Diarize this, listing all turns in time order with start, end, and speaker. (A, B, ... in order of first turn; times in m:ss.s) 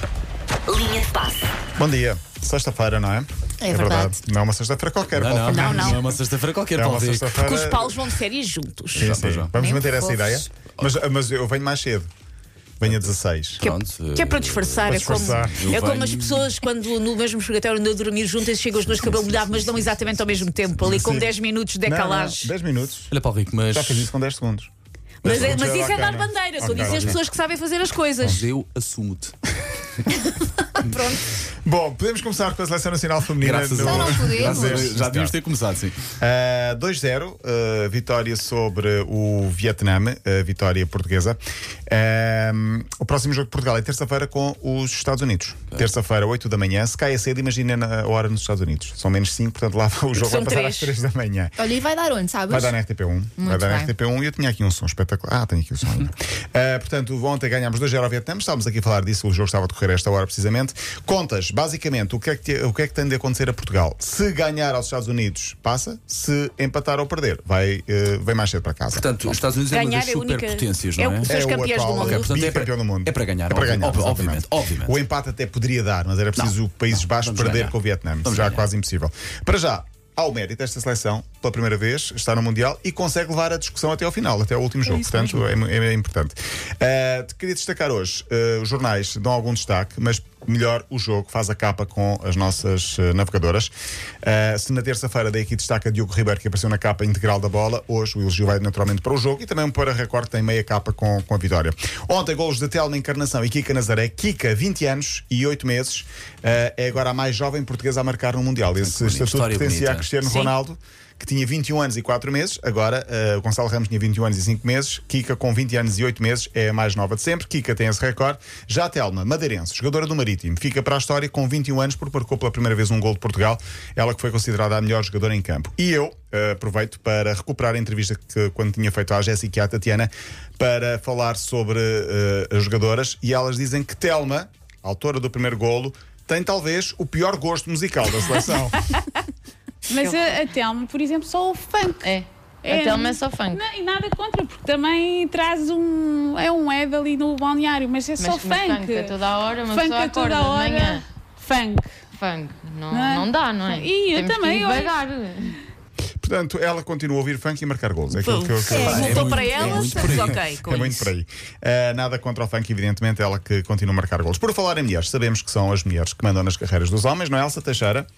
0:00.8-0:01.2 A
0:01.8-0:06.0 B
0:03.7-0:04.1 A
0:05.1-0:07.4 C
0:05.5-0:06.0 A
0:06.7-0:08.2 B
0:07.4-0:09.1 A
0:08.9-0:09.5 C
0:09.0-0:12.1 B
0:09.5-0:10.5 D
0:12.8-0:13.6 B
0:12.9-0:16.5 C
0:13.6-0:22.5 A
0:14.9-0:15.7 B
0:18.8-0:21.0 C
0:20.8-0:23.1 B
0:23.1-0:24.1 C
0:23.7-0:24.7 B
0:25.2-0:28.4 A
0:25.2-0:27.2 B
0:25.3-0:25.9 C
0:26.6-0:27.2 C
0:28.2-0:29.3 C
0:30.8-0:31.2 A
0:31.6-0:35.4 B
0:33.4-0:36.0 C
0:33.8-0:34.9 D
0:36.2-0:51.6 B
0:50.2-0:50.9 A
0:51.6-0:52.8 D
0:52.5-1:09.3 B
0:53.4-0:53.9 D
1:08.9-1:11.3 C
1:09.7-1:12.3 A
1:11.3-1:33.7 B
1:11.8-1:15.0 C
1:16.4-1:18.6 C
1:34.2-2:18.8 B
1:48.8-1:50.1 C
1:50.2-1:50.5 A
2:19.9-2:32.0 E
2:19.9-2:20.2 A
2:22.0-2:23.7 F
2:28.2-2:31.0 F
2:32.1-2:35.6 F
2:32.9-2:35.0 E
2:36.2-2:48.1 B
2:38.1-2:41.1 A
2:38.7-2:40.4 C